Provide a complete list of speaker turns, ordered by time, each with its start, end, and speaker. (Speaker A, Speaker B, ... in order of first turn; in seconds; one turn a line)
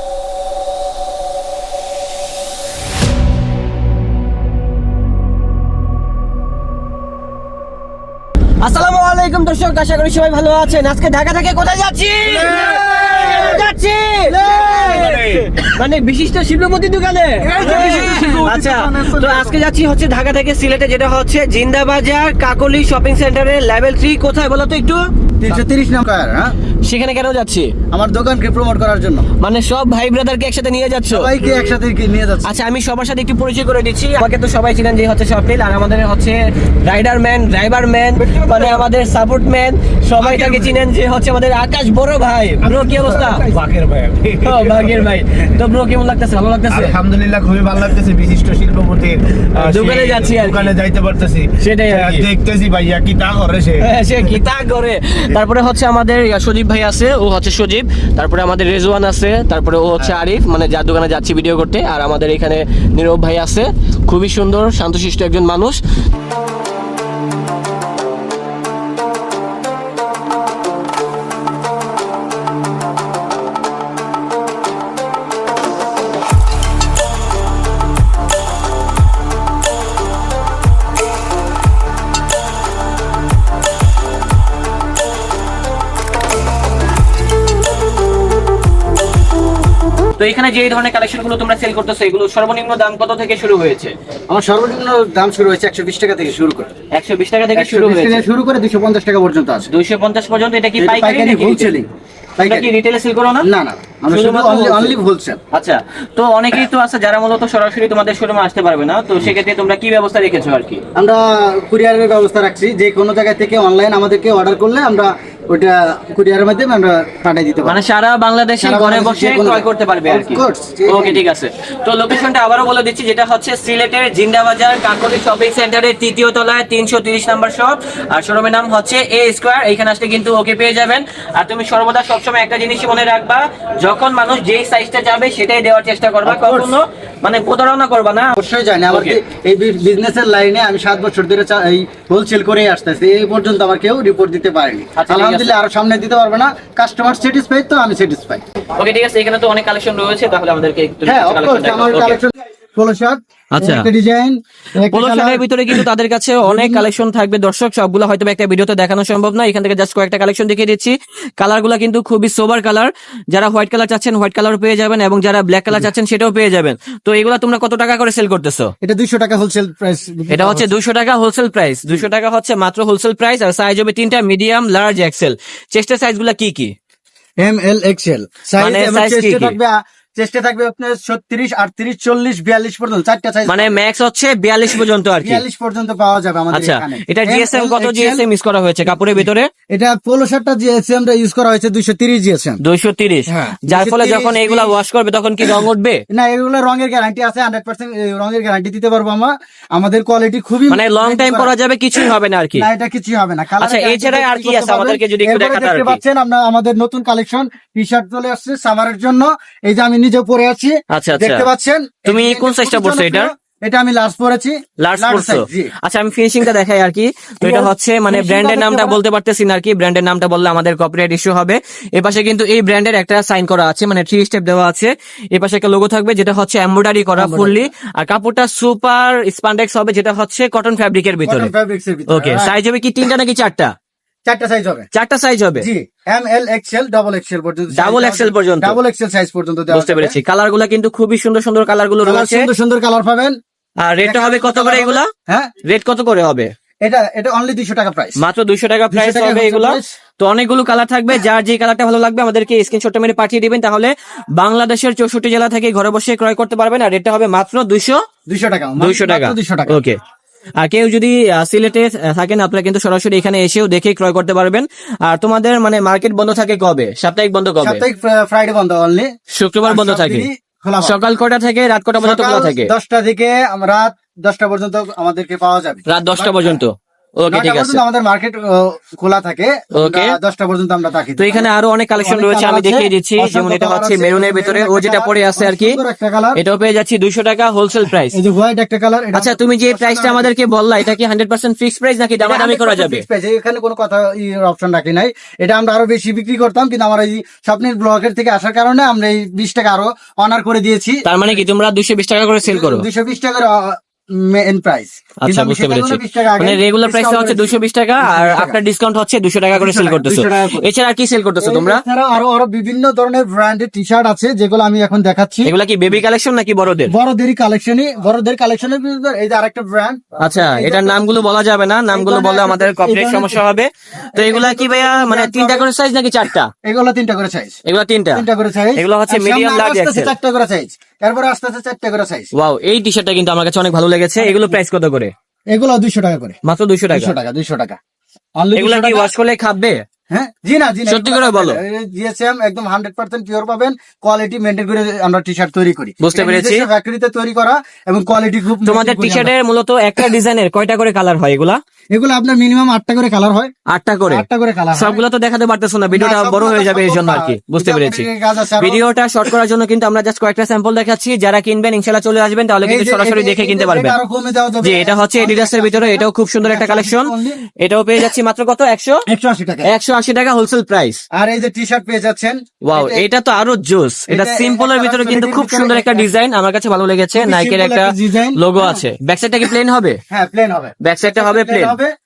Speaker A: 8.6-25.1
Speaker B: 12.4-13.6
Speaker C: 12.5-13.5
Speaker B: 14.3-15.2
Speaker C: 14.9-15.5
Speaker B: 17.4-19.6
Speaker B: 25.4-26.6
Speaker A: 26.9-27.7
Speaker B: 27.9-29.3
Speaker A: 29.4-31.3
Speaker B: 31.1-32.5
Speaker A: 32.4-43.5
Speaker B: 38.2-38.9
Speaker B: 40.2-40.8
Speaker C: 42.7-45.1
Speaker A: 44.4-47.0
Speaker C: 46.7-53.9
Speaker A: 49.6-50.8
Speaker A: 51.6-52.3
Speaker A: 53.8-65.8
Speaker A: 90.2-94.0
Speaker B: 94.3-96.7
Speaker A: 96.9-98.3
Speaker B: 97.5-99.7
Speaker A: 99.7-101.7
Speaker B: 100.8-102.7
Speaker A: 102.4-103.5
Speaker B: 103.4-105.4
Speaker A: 104.1-105.0
Speaker A: 105.5-110.8
Speaker B: 111.0-117.8
Speaker A: 117.7-138.4
Speaker B: 118.6-121.2
Speaker B: 136.2-136.8
Speaker B: 138.4-148.4
Speaker A: 138.9-139.2
Speaker A: 145.0-145.5
Speaker A: 148.8-152.2
Speaker B: 151.1-155.8
Speaker A: 153.6-153.9
Speaker A: 154.9-168.7
Speaker B: 156.4-156.9
Speaker B: 168.8-170.7
Speaker A: 170.3-176.7
Speaker B: 177.4-183.7
Speaker A: 178.6-179.6
Speaker A: 183.5-185.4
Speaker B: 185.2-188.2
Speaker A: 186.5-189.5
Speaker B: 189.7-192.6
Speaker A: 192.6-196.0
Speaker B: 193.3-194.7
Speaker B: 196.1-201.5
Speaker A: 200.7-202.7
Speaker B: 202.6-215.7
Speaker A: 203.6-206.0
Speaker A: 210.9-211.5
Speaker A: 212.1-213.3
Speaker A: 214.8-231.5
Speaker B: 217.4-219.0
Speaker B: 227.2-227.7
Speaker B: 231.2-232.5
Speaker A: 232.1-233.7
Speaker B: 234.3-234.9
Speaker A: 234.9-235.7
Speaker B: 235.6-240.2
Speaker A: 237.8-238.8
Speaker A: 239.7-242.5
Speaker B: 242.0-243.4
Speaker A: 243.8-245.1
Speaker B: 244.0-245.5
Speaker A: 245.7-246.5
Speaker B: 246.8-248.2
Speaker A: 248.2-258.0
Speaker B: 248.9-249.9
Speaker B: 258.3-259.8
Speaker A: 258.8-260.0
Speaker A: 260.6-267.8
Speaker B: 267.6-269.1
Speaker A: 269.4-270.3
Speaker B: 269.7-271.0
Speaker A: 270.8-272.7
Speaker B: 272.0-276.6
Speaker A: 275.9-277.8
Speaker B: 277.3-286.4
Speaker A: 279.7-280.2
Speaker A: 281.2-285.8
Speaker A: 286.4-288.2
Speaker B: 288.1-290.3
Speaker A: 289.1-293.0
Speaker B: 292.2-301.0
Speaker A: 301.1-302.9
Speaker B: 302.4-308.6
Speaker A: 305.2-311.8
Speaker B: 309.5-310.6
Speaker B: 311.4-315.5
Speaker A: 315.4-316.9
Speaker B: 316.9-321.2
Speaker A: 320.2-326.5
Speaker B: 321.9-323.4
Speaker B: 324.2-325.7
Speaker B: 326.6-327.6
Speaker A: 327.7-328.2
Speaker B: 328.1-332.3
Speaker A: 328.8-330.1
Speaker A: 332.3-335.1
Speaker B: 334.2-334.6
Speaker B: 335.5-336.4
Speaker A: 336.4-337.1
Speaker B: 336.9-337.8
Speaker B: 338.4-339.1
Speaker A: 338.6-339.8
Speaker B: 340.1-349.3
Speaker A: 340.9-341.6
Speaker A: 346.0-346.7
Speaker A: 348.6-351.6
Speaker B: 351.9-353.5
Speaker A: 353.7-358.1
Speaker B: 354.1-355.0
Speaker B: 355.9-358.8
Speaker A: 358.6-363.9
Speaker B: 362.6-367.4
Speaker A: 364.6-369.0
Speaker B: 369.1-369.7
Speaker A: 369.6-371.0
Speaker B: 371.1-373.1
Speaker A: 372.6-380.0
Speaker B: 374.1-376.1
Speaker B: 377.1-378.8
Speaker B: 380.1-381.9
Speaker A: 380.8-381.8